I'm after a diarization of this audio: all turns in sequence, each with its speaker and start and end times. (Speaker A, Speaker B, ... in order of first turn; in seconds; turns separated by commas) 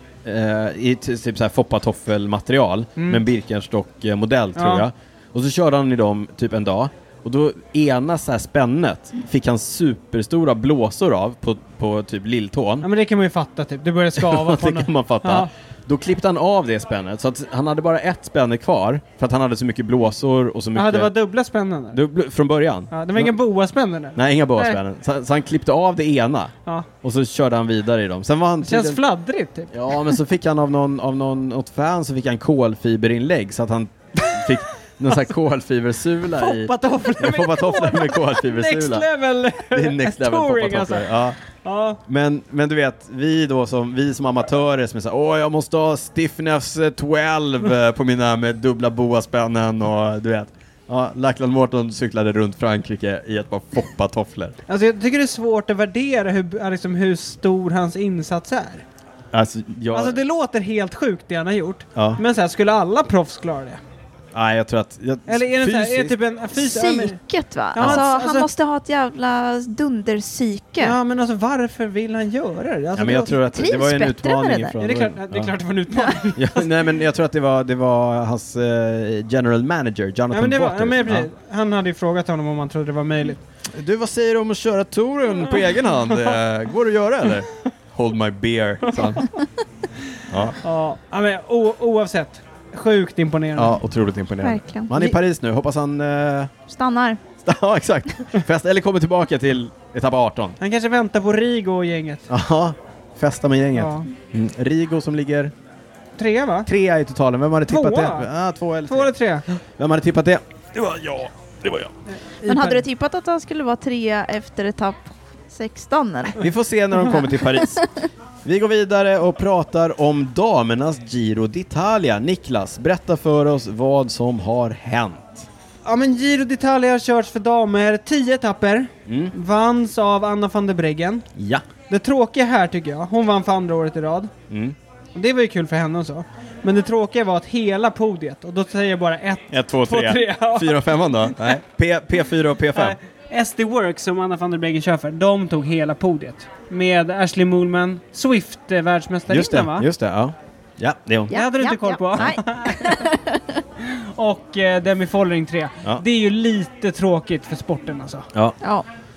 Speaker A: 0.2-12.9, Speaker B: 4.6-4.8, Speaker B: 12.8-15.5, Speaker A: 14.2-21.1, Speaker B: 20.7-22.0, Speaker A: 21.9-23.3, Speaker B: 22.9-24.8, Speaker A: 24.1-29.0, Speaker B: 28.6-30.1, Speaker A: 29.7-39.1, Speaker B: 36.4-42.0, Speaker A: 39.7-41.4, Speaker A: 42.1-54.5, Speaker B: 54.7-58.8, Speaker A: 59.3-60.2, Speaker B: 59.9-63.8, Speaker A: 64.3-66.1, Speaker B: 65.3-67.2, Speaker C: 66.5-71.0, Speaker B: 67.7-68.5, Speaker B: 70.8-73.3, Speaker A: 72.9-75.5, Speaker C: 73.4-74.8, Speaker B: 74.8-76.7, Speaker C: 75.9-76.2, Speaker A: 76.3-81.3, Speaker B: 80.3-83.4, Speaker A: 83.7-89.3, Speaker A: 90.3-90.6, Speaker B: 90.6-93.8, Speaker A: 93.5-96.5, Speaker C: 94.4-95.2, Speaker C: 96.7-97.2, Speaker A: 97.4-100.6, Speaker B: 100.6-102.3, Speaker A: 102.3-105.5, Speaker B: 103.7-104.1, Speaker B: 106.2-106.7, Speaker A: 106.7-111.9, Speaker B: 107.7-108.3, Speaker B: 108.9-109.4, Speaker B: 112.4-112.8, Speaker C: 112.4-116.4, Speaker A: 116.4-117.9, Speaker C: 117.5-117.8, Speaker A: 118.4-125.5, Speaker B: 125.8-131.3, Speaker A: 129.1-129.3, Speaker A: 131.3-131.6, Speaker B: 131.9-134.3, Speaker A: 134.5-134.8, Speaker B: 135.1-141.6, Speaker A: 139.5-143.0, Speaker B: 142.7-149.9, Speaker A: 149.3-151.4, Speaker C: 151.3-153.6, Speaker B: 151.3-153.1, Speaker B: 153.8-158.3, Speaker C: 158.6-158.8